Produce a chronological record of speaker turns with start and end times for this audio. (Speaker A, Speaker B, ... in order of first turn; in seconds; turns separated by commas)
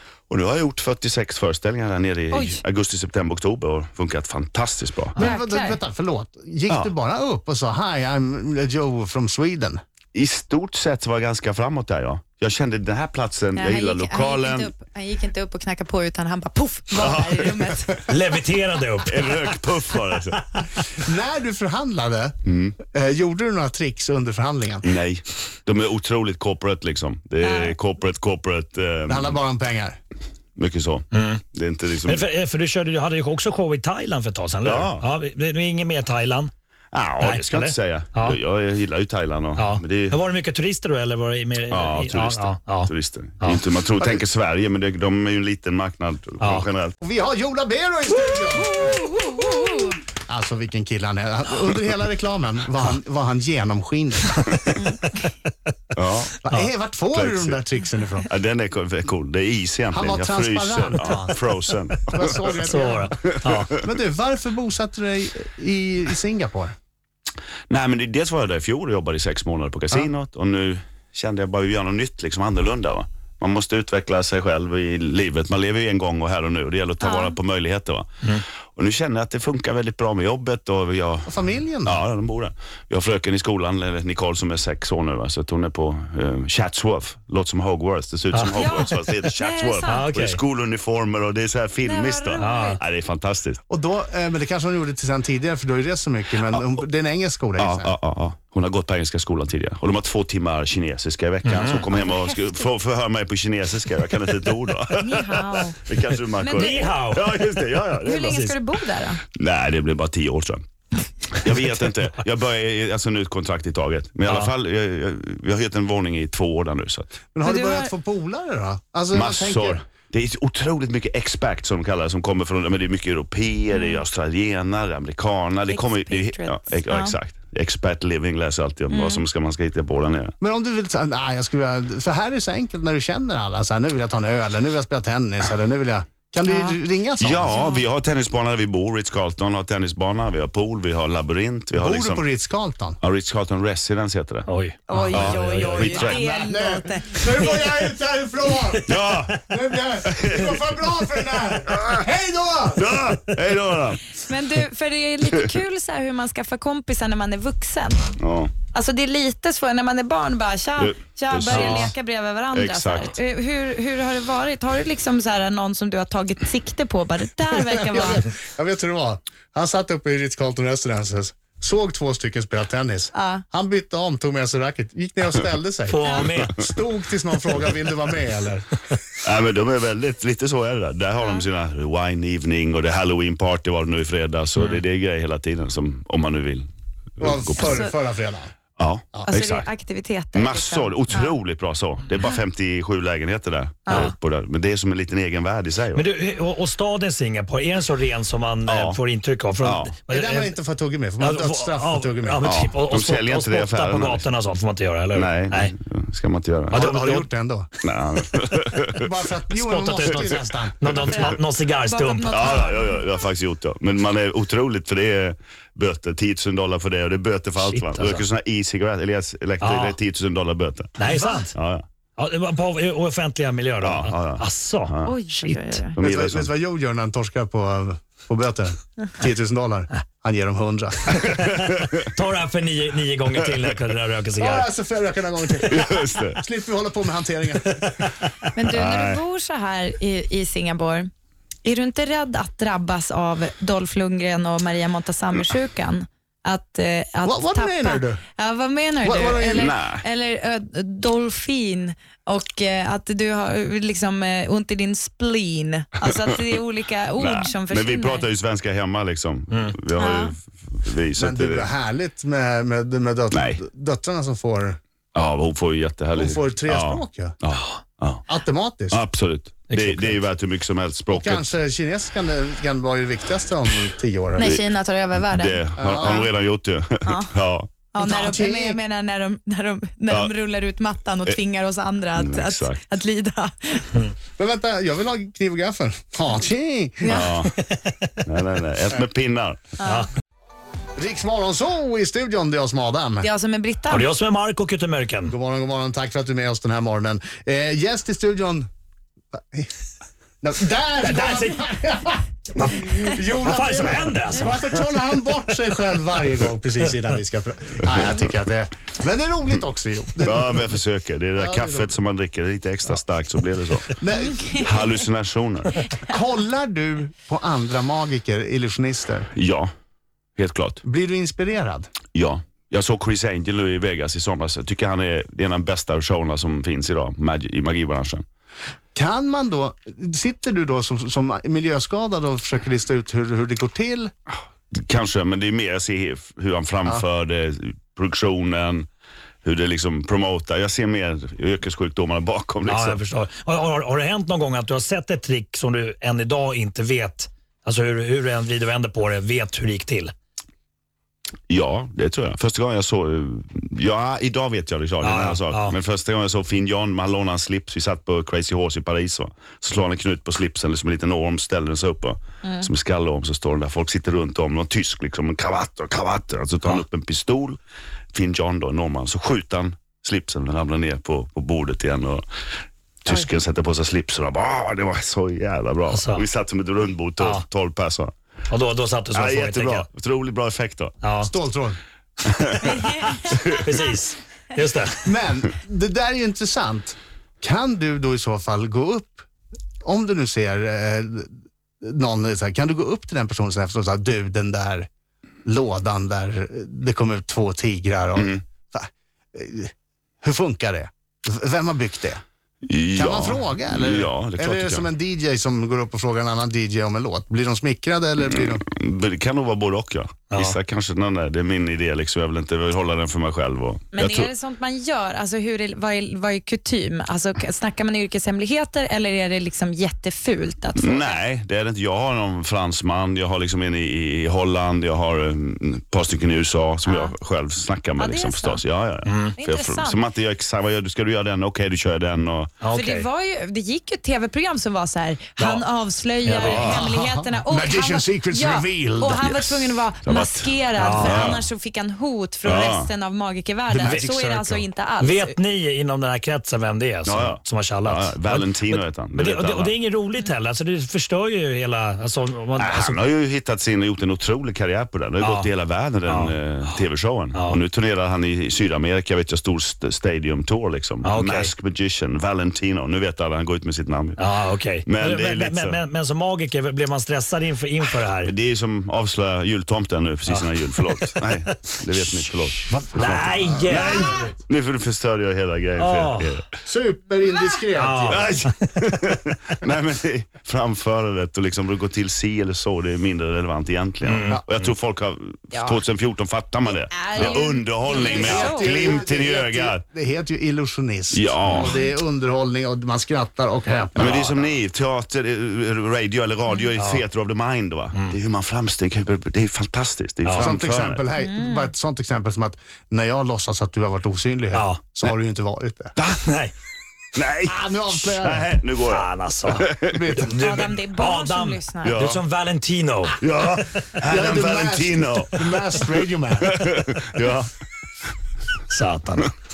Speaker A: 0.3-5.2, Speaker B: 2.3-2.6, Speaker B: 5.2-5.8, Speaker C: 5.2-9.8, Speaker A: 10.1-14.7, Speaker B: 13.6-18.1, Speaker A: 16.9-17.8, Speaker D: 18.1-19.6, Speaker A: 19.1-20.4, Speaker C: 21.0-24.9, Speaker A: 22.4-22.8, Speaker A: 24.8-29.4, Speaker B: 27.4-27.8, Speaker C: 29.1-30.0, Speaker A: 30.6-32.3, Speaker D: 31.1-31.4, Speaker D: 32.0-36.5, Speaker A: 34.6-35.0, Speaker A: 36.9-40.2, Speaker D: 37.2-38.4, Speaker D: 39.6-43.6, Speaker A: 41.7-47.0, Speaker D: 46.4-46.7, Speaker C: 47.0-49.0, Speaker B: 48.7-50.0, Speaker C: 50.3-54.9, Speaker B: 54.8-55.2, Speaker A: 56.0-56.4, Speaker C: 56.4-58.3, Speaker A: 57.1-57.6, Speaker A: 58.3-62.5, Speaker C: 59.9-61.4, Speaker C: 62.1-63.2, Speaker D: 62.5-63.7, Speaker A: 63.2-63.9, Speaker C: 63.8-66.8, Speaker A: 67.7-93.6, Speaker B: 77.0-77.3, Speaker C: 81.3-82.0, Speaker D: 88.3-88.7, Speaker B: 88.5-90.1, Speaker D: 89.9-90.4, Speaker B: 91.8-92.8, Speaker D: 92.4-92.8, Speaker C: 93.7-98.0, Speaker A: 97.6-108.5, Speaker D: 101.4-101.9, Speaker B: 101.9-102.5, Speaker B: 104.9-107.0, Speaker D: 106.5-107.6, Speaker B: 108.0-109.2, Speaker D: 108.2-108.6, Speaker A: 109.3-110.6, Speaker A: 111.3-117.1, Speaker D: 114.3-114.5, Speaker C: 117.3-119.8, Speaker B: 117.4-117.9, Speaker A: 119.1-130.3, Speaker B: 123.7-124.0, Speaker B: 125.7-127.2, Speaker B: 128.9-129.2, Speaker C: 130.4-137.7, Speaker B: 136.4-136.8, Speaker A: 137.2-142.3, Speaker B: 137.5-137.8, Speaker C: 141.8-143.0, Speaker A: 143.0-144.5, Speaker D: 144.5-146.2, Speaker B: 144.9-147.6, Speaker A: 145.1-146.2, Speaker C: 146.0-153.0, Speaker A: 148.9-149.4, Speaker A: 150.1-150.7, Speaker A: 151.7-152.1, Speaker A: 152.8-154.2, Speaker B: 154.2-158.1, Speaker A: 158.2-158.5, Speaker B: 158.7-168.2, Speaker A: 160.8-161.9, Speaker D: 161.5-161.9, Speaker A: 162.5-163.2, Speaker C: 167.7-178.8, Speaker B: 173.1-173.4, Speaker D: 175.9-176.7, Speaker B: 176.0-176.3, Speaker A: 179.2-187.8, Speaker C: 187.2-188.5, Speaker B: 187.6-187.9, Speaker A: 188.8-189.7, Speaker B: 189.3-191.3, Speaker A: 190.3-196.1, Speaker B: 193.9-194.1, Speaker D: 195.9-200.6, Speaker A: 198.7-199.0, Speaker A: 199.6-199.9, Speaker C: 200.1-202.7, Speaker D: 201.2-205.7, Speaker A: 202.4-204.2, Speaker A: 205.1-206.9, Speaker D: 206.7-207.3, Speaker C: 206.7-207.7, Speaker A: 207.8-209.1, Speaker C: 209.0-211.1, Speaker D: 209.5-212.6, Speaker B: 211.0-213.0, Speaker A: 212.3-221.0, Speaker D: 217.6-218.2, Speaker D: 219.6-220.0, Speaker D: 221.0-221.6, Speaker A: 221.5-221.8, Speaker D: 222.2-225.9, Speaker A: 223.8-225.2, Speaker B: 225.0-226.0, Speaker A: 226.0-226.5, Speaker C: 226.0-231.3, Speaker D: 231.5-234.7, Speaker C: 234.4-238.0, Speaker A: 235.7-236.4, Speaker B: 238.6-241.1, Speaker A: 238.7-239.2, Speaker B: 241.6-258.2, Speaker C: 247.2-248.2, Speaker C: 249.0-249.7, Speaker A: 249.5-250.1, Speaker A: 257.2-261.7, Speaker B: 260.0-260.3, Speaker C: 261.2-264.8, Speaker A: 263.3-263.6, Speaker A: 265.1-268.2, Speaker C: 266.1-267.4, Speaker C: 268.3-269.0, Speaker A: 268.9-271.5, Speaker D: 269.7-270.2, Speaker C: 271.1-274.5, Speaker B: 274.4-276.3, Speaker A: 275.2-277.7, Speaker C: 275.8-276.3, Speaker B: 277.1-277.3, Speaker B: 277.9-284.1, Speaker C: 278.0-278.8, Speaker A: 282.1-282.8, Speaker C: 284.4-287.2, Speaker B: 287.0-287.3, Speaker A: 287.1-287.6, Speaker D: 287.5-288.1, Speaker A: 288.2-289.6, Speaker B: 289.8-290.1, Speaker C: 291.0-293.3, Speaker B: 293.2-294.1, Speaker D: 293.9-295.3, Speaker C: 295.3-298.7, Speaker C: 299.4-299.7, Speaker C: 300.4-310.6, Speaker D: 301.0-301.6, Speaker D: 302.6-304.6, Speaker A: 310.2-314.0, Speaker C: 311.4-311.9, Speaker C: 313.9-314.7, Speaker A: 314.5-315.8, Speaker C: 316.0-319.3, Speaker A: 319.3-319.7, Speaker A: 320.4-320.8, Speaker C: 320.8-321.9, Speaker A: 322.1-328.2, Speaker C: 328.9-334.1, Speaker A: 334.7-338.9, Speaker A: 339.4-343.0, Speaker D: 342.6-350.1, Speaker A: 351.5-367.6, Speaker D: 355.0-355.8, Speaker A: 368.1-372.2, Speaker A: 373.1-378.1, Speaker D: 375.9-376.3, Speaker D: 377.2-377.4, Speaker D: 378.5-379.9, Speaker A: 379.1-380.9, Speaker D: 381.0-381.3, Speaker C: 381.2-381.8, Speaker A: 382.2-383.6, Speaker B: 382.6-383.6, Speaker D: 383.3-385.0, Speaker C: 385.0-389.3, Speaker C: 389.8-394.9, Speaker C: 395.4-399.7, Speaker A: 398.1-398.4, Speaker C: 400.2-402.2, Speaker A: 402.6-404.9, Speaker C: 402.9-408.6, Speaker A: 408.2-414.3, Speaker D: 410.3-410.6, Speaker B: 413.9-421.2, Speaker A: 420.8-432.6, Speaker B: 426.9-427.1, Speaker B: 428.0-428.6, Speaker D: 429.1-429.4, Speaker B: 429.4-430.0, Speaker D: 432.6-433.1, Speaker B: 432.7-445.4, Speaker D: 435.4-435.6, Speaker D: 436.2-436.9, Speaker A: 436.3-436.9, Speaker C: 436.4-439.8, Speaker A: 440.0-441.5, Speaker D: 440.8-441.4, Speaker A: 442.4-442.9, Speaker C: 443.7-444.2, Speaker D: 443.8-453.0, Speaker A: 447.1-449.7, Speaker A: 452.6-464.2, Speaker D: 455.2-455.5, Speaker D: 456.1-456.8, Speaker D: 457.3-457.6, Speaker D: 461.0-461.5, Speaker D: 464.2-468.3, Speaker A: 464.9-465.8, Speaker A: 468.2-476.4, Speaker D: 470.3-471.2, Speaker D: 472.0-474.3, Speaker C: 473.6-474.3, Speaker D: 475.8-476.4, Speaker C: 476.6-478.4, Speaker D: 477.7-479.2, Speaker A: 478.1-489.8, Speaker D: 484.0-484.4, Speaker B: 485.5-485.8, Speaker B: 486.9-489.0, Speaker C: 487.9-494.4, Speaker A: 491.1-491.8, Speaker B: 491.6-491.9, Speaker A: 493.9-501.1, Speaker D: 496.8-497.0, Speaker D: 500.2-500.5, Speaker C: 500.4-505.9, Speaker B: 501.2-501.7, Speaker D: 504.5-505.0, Speaker A: 506.0-506.2, Speaker D: 506.2-506.5, Speaker A: 507.1-510.0, Speaker C: 507.5-508.5, Speaker D: 508.8-513.2, Speaker C: 509.8-510.4, Speaker B: 510.3-512.0, Speaker A: 511.8-512.2, Speaker A: 513.2-515.4, Speaker C: 514.0-516.7, Speaker A: 516.4-517.5, Speaker D: 518.7-519.3